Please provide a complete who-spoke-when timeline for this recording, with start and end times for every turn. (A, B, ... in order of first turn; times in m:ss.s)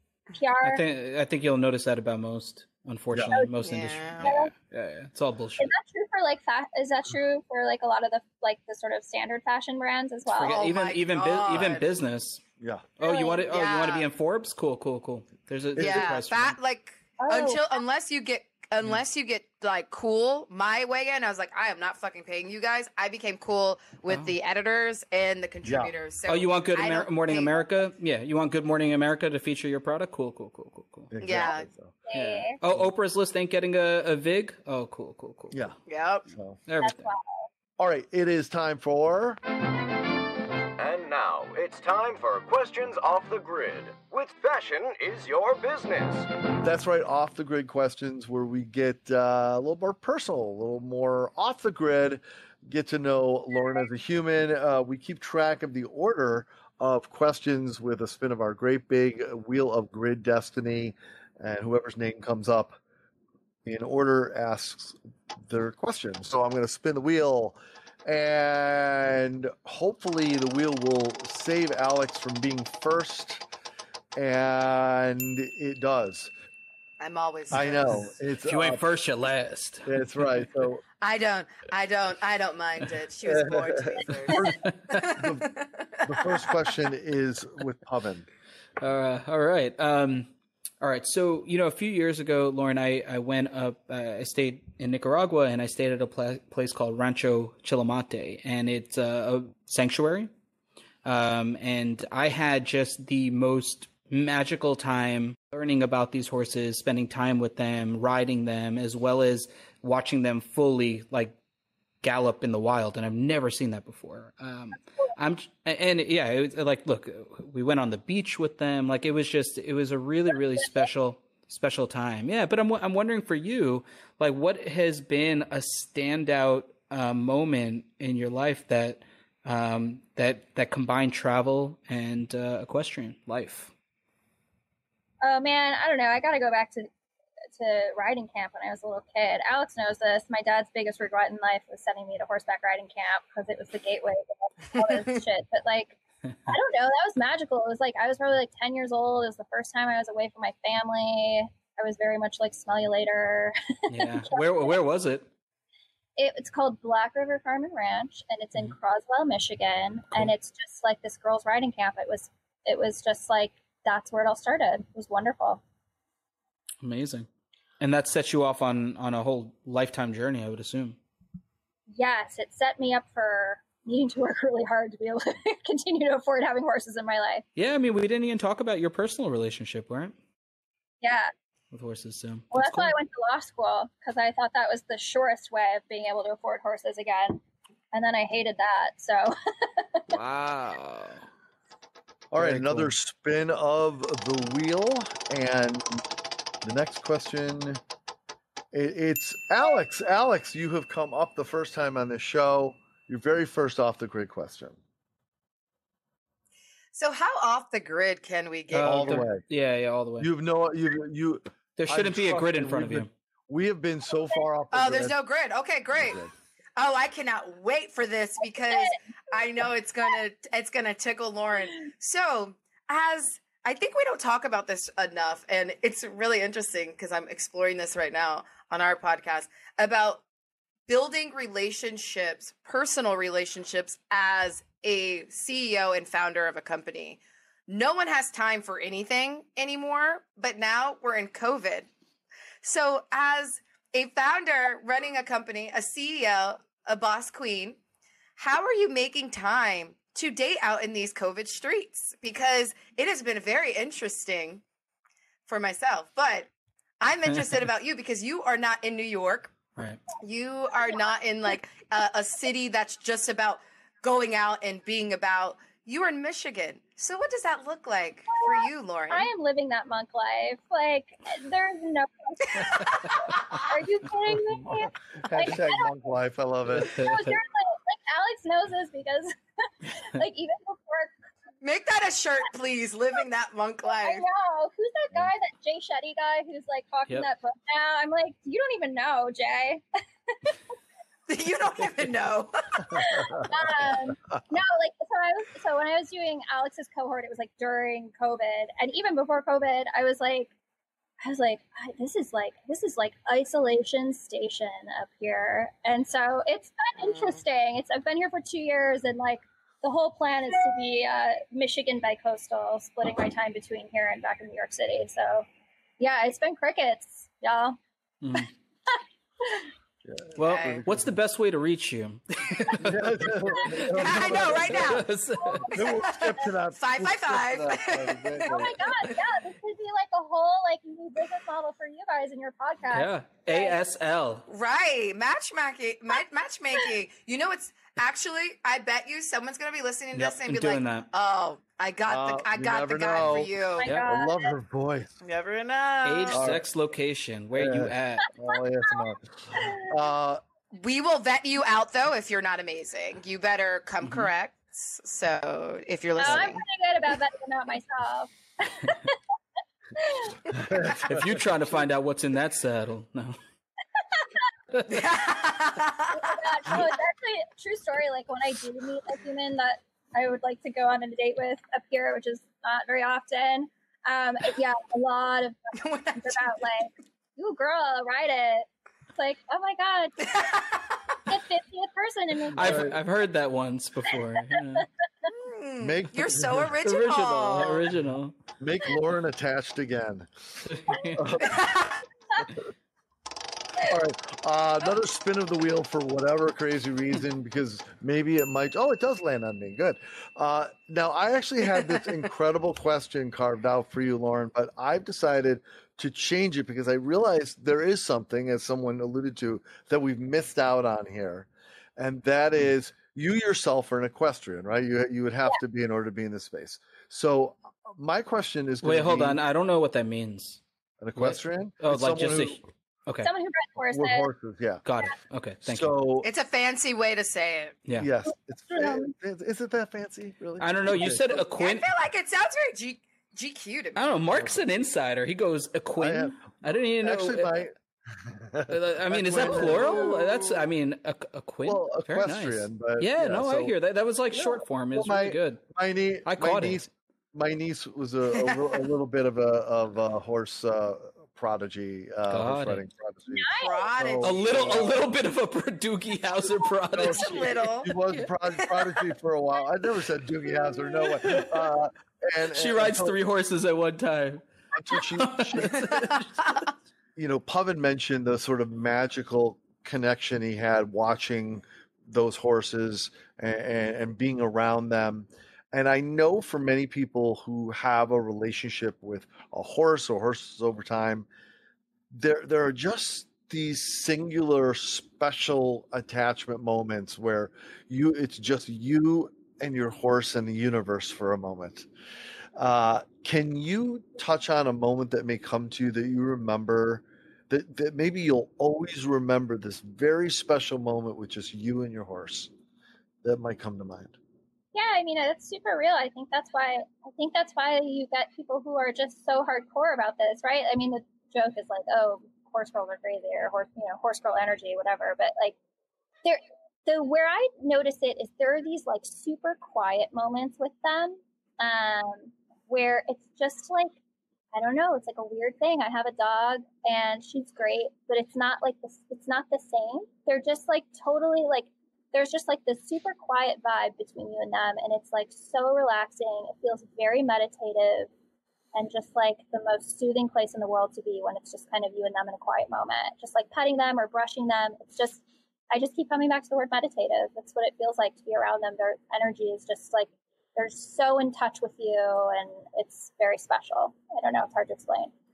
0:00.4-0:00.8 A
0:00.6-0:05.7 B
0:03.3-0:03.6 A
0:03.6-0:04.4 C
0:04.2-0:04.5 A
0:05.6-0:10.6 A
0:10.4-0:12.4 B
0:10.4-0:11.9 C
0:12.6-0:12.9 D
0:13.0-0:16.6 B
0:13.0-0:13.5 A
0:13.5-0:14.1 C
0:15.8-0:16.2 D
0:15.8-0:27.7 C
0:17.2-0:17.7 A
0:24.1-0:24.4 B
0:25.6-0:25.9 D
0:26.3-0:31.1 B
0:31.1-0:32.0 D
0:31.2-0:31.7 C
0:32.1-0:32.6 A
0:32.1-0:35.6 B
0:35.5-0:36.6 D
0:35.9-0:36.3 C
0:36.7-0:37.1 B
0:36.8-0:37.5 A
0:37.8-0:39.4 D
0:40.8-0:46.3 E
0:46.5-1:02.8 D
1:03.6-1:13.5 D
1:14.2-1:16.3 D
1:17.0-1:18.1 C
1:17.5-1:18.8 D
1:18.5-1:20.0 B
1:19.9-1:20.8 D
1:21.0-1:26.5 C
1:23.3-1:28.3 D
1:28.8-1:40.3 B
1:41.0-1:51.4 B
1:52.0-2:13.7 B
2:15.2-2:16.9 A
2:17.6-2:34.8 A
2:24.8-2:25.1 C
2:33.9-2:35.3 B
2:36.2-2:45.6 A
2:46.8-2:47.3 B
2:47.8-2:51.0 B
2:51.9-2:57.4 A
2:57.6-3:00.2 B
3:01.0-3:01.3 A
3:01.7-3:03.0 B
3:02.5-3:07.4 A
3:07.9-3:10.2 A
3:10.1-3:11.2 B
3:12.3-3:16.0 D
3:12.4-3:12.9 B
3:16.6-3:17.8 D
3:18.7-3:24.8 D
3:26.9-3:29.2 C
3:28.7-3:30.3 B
3:28.8-3:29.4 D
3:30.2-3:35.2 D
3:31.8-3:33.1 B
3:34.7-3:36.2 C
3:35.9-3:36.3 D
3:36.8-3:50.2 C
3:38.4-3:39.0 A
3:50.9-4:01.9 C
4:02.6-4:07.8 C
4:08.4-4:14.6 C
4:15.5-4:16.5 C
4:17.0-4:19.6 C
4:19.8-4:20.0 B
4:20.2-4:29.3 C
4:28.3-4:35.9 A
4:32.6-4:33.6 C
4:35.2-4:37.2 D
4:36.7-4:37.4 B
4:37.0-4:41.2 A
4:41.6-4:44.2 C
4:44.0-4:50.6 A
4:51.3-4:53.1 C
4:52.9-5:00.5 A
5:01.2-5:15.5 A
5:07.1-5:07.4 C
5:16.0-5:17.8 A
5:18.2-5:18.5 B
5:18.9-5:19.7 A
5:20.0-5:21.1 D
5:20.4-5:20.8 C
5:20.4-5:25.7 B
5:22.8-5:25.0 D
5:23.8-5:25.1 C
5:25.4-5:26.2 A
5:25.7-5:28.8 D
5:25.7-5:29.2 C
5:28.5-5:33.8 A
5:32.9-5:34.4 B
5:34.5-5:43.9 C
5:40.1-5:41.1 B
5:42.1-5:45.2 D
5:43.2-5:44.1 B
5:43.8-5:44.5 A
5:45.2-5:46.5 C
5:46.0-5:48.3 B
5:46.3-5:46.7 D
5:47.6-5:50.4 D
5:50.7-5:56.6 C
5:54.0-5:54.3 B
5:56.2-5:59.2 A
6:00.0-6:00.4 A
6:00.7-6:01.4 D
6:00.8-6:03.4 B
6:04.9-6:06.8 C
6:06.2-6:20.3 A
6:15.8-6:16.5 C
6:20.2-6:21.2 C
6:21.3-6:22.9 A
6:22.5-6:24.9 B
6:22.6-6:23.0 D
6:25.3-6:27.9 C
6:25.8-6:26.8 D
6:26.8-6:28.4 B
6:28.6-6:30.3 D
6:30.6-6:31.4 B
6:31.2-6:31.6 D
6:31.4-6:32.0 C
6:33.8-6:59.4 D
6:58.8-7:00.6 B
7:01.0-7:02.6 D
7:01.2-7:03.3 B
7:03.2-7:04.3 A
7:03.9-7:04.8 D
7:04.8-7:06.0 B
7:05.6-7:06.3 D
7:06.2-7:07.8 C
7:07.9-7:11.2 D
7:08.7-7:09.1 A
7:10.6-7:11.9 B
7:11.6-7:14.0 C
7:14.0-7:17.6 B
7:16.0-7:20.5 D
7:18.7-7:25.6 B
7:19.4-7:20.1 C
7:21.6-7:23.7 D
7:24.3-7:35.0 D
7:26.3-7:26.9 B
7:28.4-7:28.8 C
7:32.3-7:32.8 B
7:33.3-7:33.9 A
7:33.6-7:35.0 C
7:34.2-7:38.2 B
7:36.9-7:43.2 D
7:37.0-7:38.0 C
7:38.5-7:39.0 C
7:41.1-7:41.7 B
7:42.5-7:46.6 B
7:44.8-7:45.9 D
7:45.9-7:46.6 C
7:47.2-8:01.3 D
8:02.1-8:11.9 D
8:12.6-8:22.5 D
8:23.2-8:24.2 D
8:24.7-8:35.6 A
8:36.2-8:44.0 A
8:44.5-8:58.1 A
8:58.8-9:15.1 A